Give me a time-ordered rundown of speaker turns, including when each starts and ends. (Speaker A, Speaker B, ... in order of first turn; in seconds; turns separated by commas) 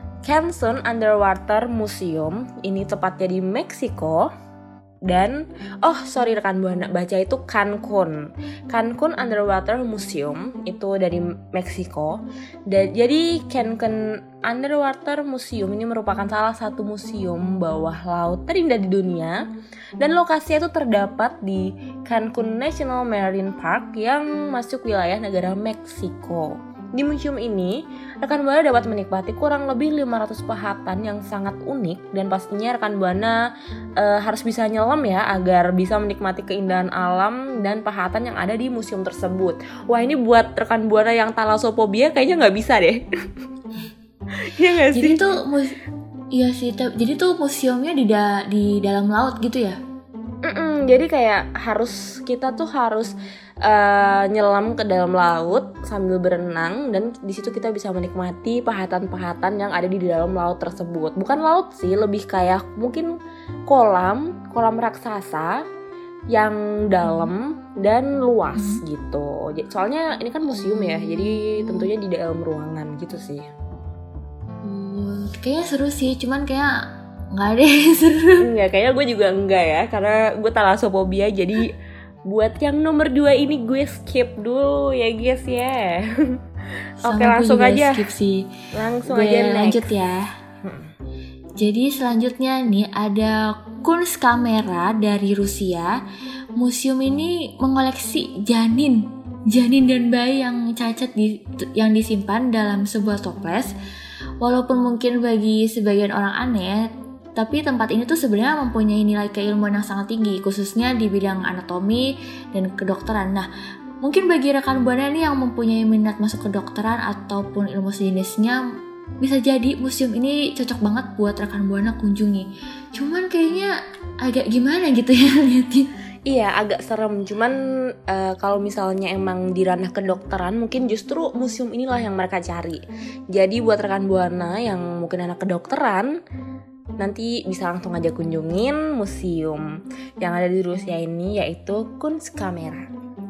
Speaker A: 0.2-4.3, Speaker A: 5.0-19.4, Speaker A: 20.0-33.4, Speaker A: 34.0-43.0, Speaker A: 44.4-45.2, Speaker B: 44.9-45.8, Speaker B: 46.3-49.8, Speaker A: 50.4-63.1, Speaker A: 63.7-65.7, Speaker A: 66.3-73.5, Speaker B: 67.0-67.3, Speaker B: 68.5-68.8, Speaker B: 70.5-71.9, Speaker B: 74.6-78.4, Speaker A: 78.4-81.7, Speaker A: 82.3-86.4, Speaker A: 87.0-88.0, Speaker B: 87.0-88.5, Speaker A: 88.7-89.9, Speaker B: 89.0-90.2, Speaker A: 90.6-90.9, Speaker B: 91.6-95.9, Speaker B: 96.6-103.7, Speaker B: 104.4-113.5, Speaker B: 114.0-118.6, Speaker B: 119.2-123.7, Speaker B: 124.2-125.9, Speaker A: 126.2-136.1, Speaker A: 137.0-139.6, Speaker A: 140.2-142.9